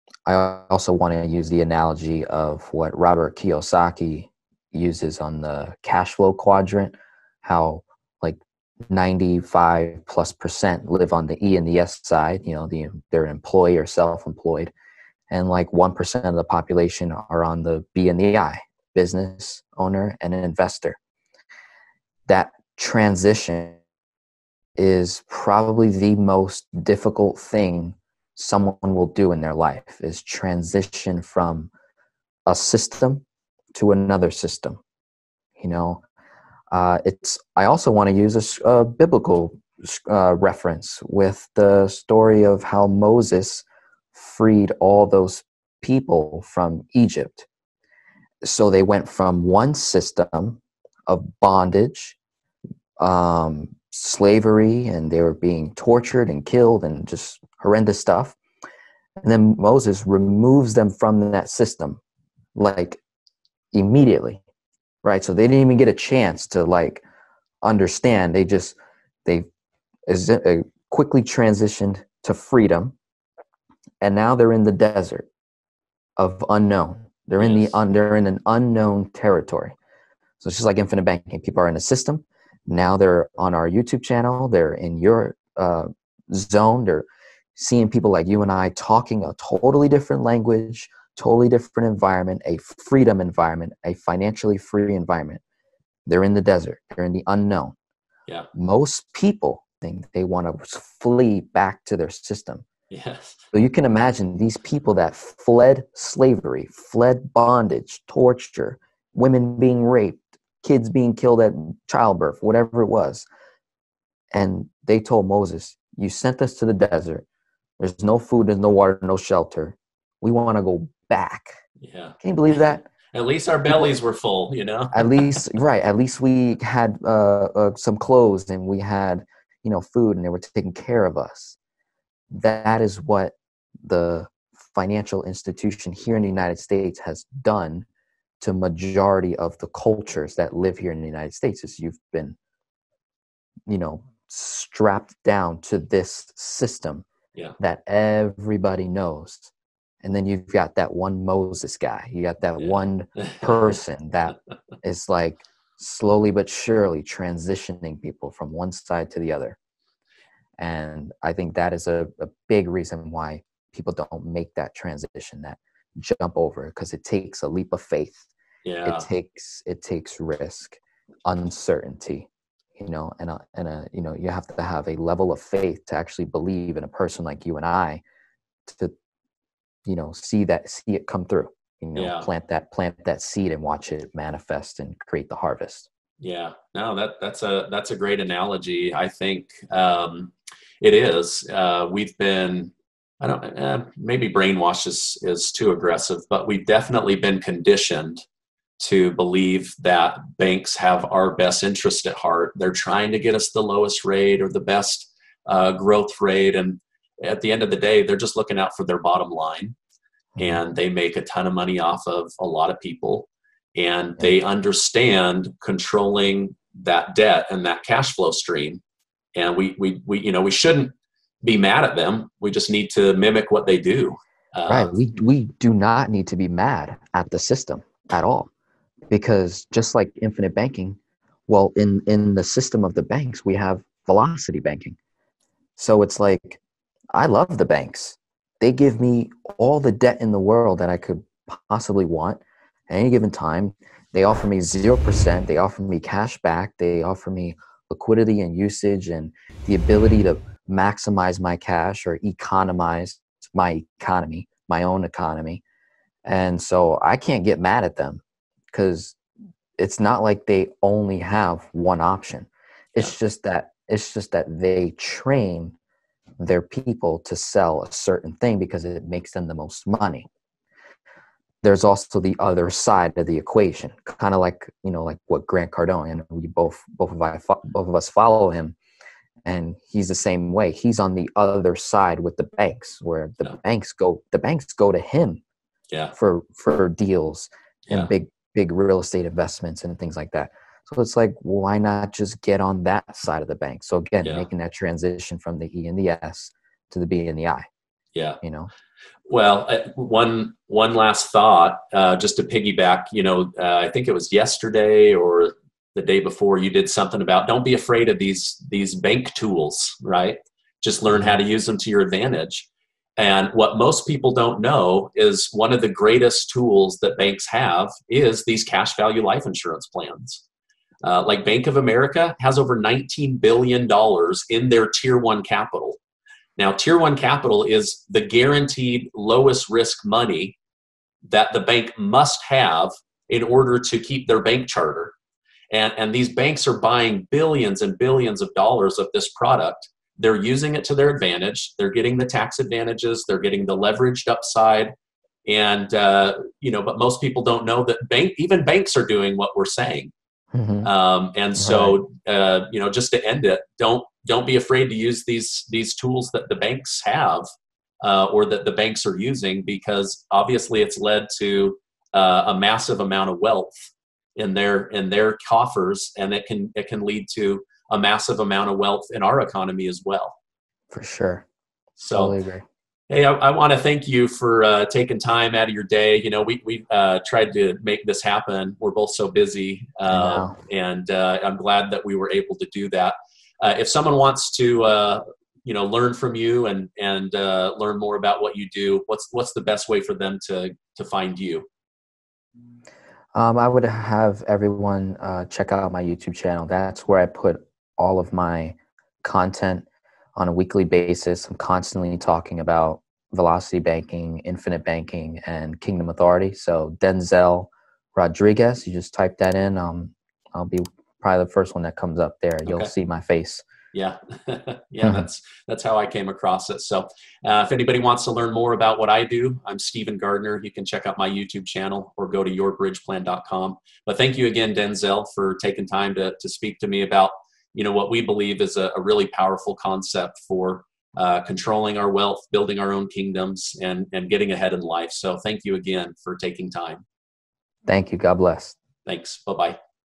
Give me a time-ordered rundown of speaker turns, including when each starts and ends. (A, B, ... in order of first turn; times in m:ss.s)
0:00.2-0:14.7 A
0:15.3-0:21.0 A
0:22.3-0:23.8 A
0:24.8-0:31.7 A
0:32.4-0:34.8 A
0:35.6-0:36.0 A
0:36.7-0:47.5 A
0:48.4-0:52.2 A
0:53.0-0:58.4 A
0:59.2-1:02.0 A
1:02.5-1:03.0 A
1:03.7-1:04.4 A
1:05.0-1:07.0 A
1:07.6-1:09.5 A
1:10.1-1:12.9 A
1:14.0-1:15.3 A
1:16.2-1:19.8 A
1:17.4-1:17.8 B
1:20.4-1:35.4 A
1:36.0-1:37.7 A
1:38.5-1:42.6 A
1:42.9-1:43.4 B
1:43.5-1:53.3 A
1:54.3-1:57.2 A
1:57.8-2:01.6 A
2:01.8-2:02.2 B
2:02.2-2:02.9 A
2:03.1-2:05.4 B
2:04.9-2:11.6 A
2:12.3-2:17.8 A
2:18.4-2:22.4 A
2:23.7-2:27.0 A
2:27.6-2:29.5 A
2:30.0-2:39.6 A
2:32.6-2:33.6 B
2:40.6-2:48.3 A
2:48.6-2:49.1 B
2:48.8-2:58.0 A
2:58.6-2:58.9 A
2:59.8-3:05.9 A
3:01.9-3:02.3 B
3:06.2-3:18.2 B
3:18.8-3:29.8 B
3:30.4-3:38.8 B
3:39.3-3:44.9 B
3:44.7-3:48.5 A
3:49.1-3:55.0 A
3:55.8-3:56.6 A
3:57.1-4:15.6 A
4:16.2-4:19.2 A
4:19.8-4:25.8 A
4:26.4-4:30.3 A
4:31.6-4:38.8 A
4:39.4-4:45.4 A
4:46.1-4:57.6 A
4:47.9-4:48.1 B
4:58.1-4:58.4 B
4:58.4-4:58.7 A
4:59.3-5:20.4 B
5:11.1-5:11.4 A
5:21.0-5:26.0 B
5:26.6-5:30.6 B
5:31.2-5:35.1 B
5:35.7-5:44.9 B
5:45.4-5:50.1 B
5:50.5-5:50.9 A
5:50.8-5:57.4 B
5:51.6-5:52.0 A
5:58.0-6:10.4 B
6:10.9-6:11.4 A
6:12.0-6:12.4 B
6:12.1-6:12.6 A
6:13.1-6:31.6 B
6:20.1-6:20.6 A
6:33.3-6:53.6 A
6:52.6-6:52.9 B
6:53.9-7:17.0 B
6:55.0-6:55.3 A
7:17.8-7:18.8 A
7:19.0-7:19.8 B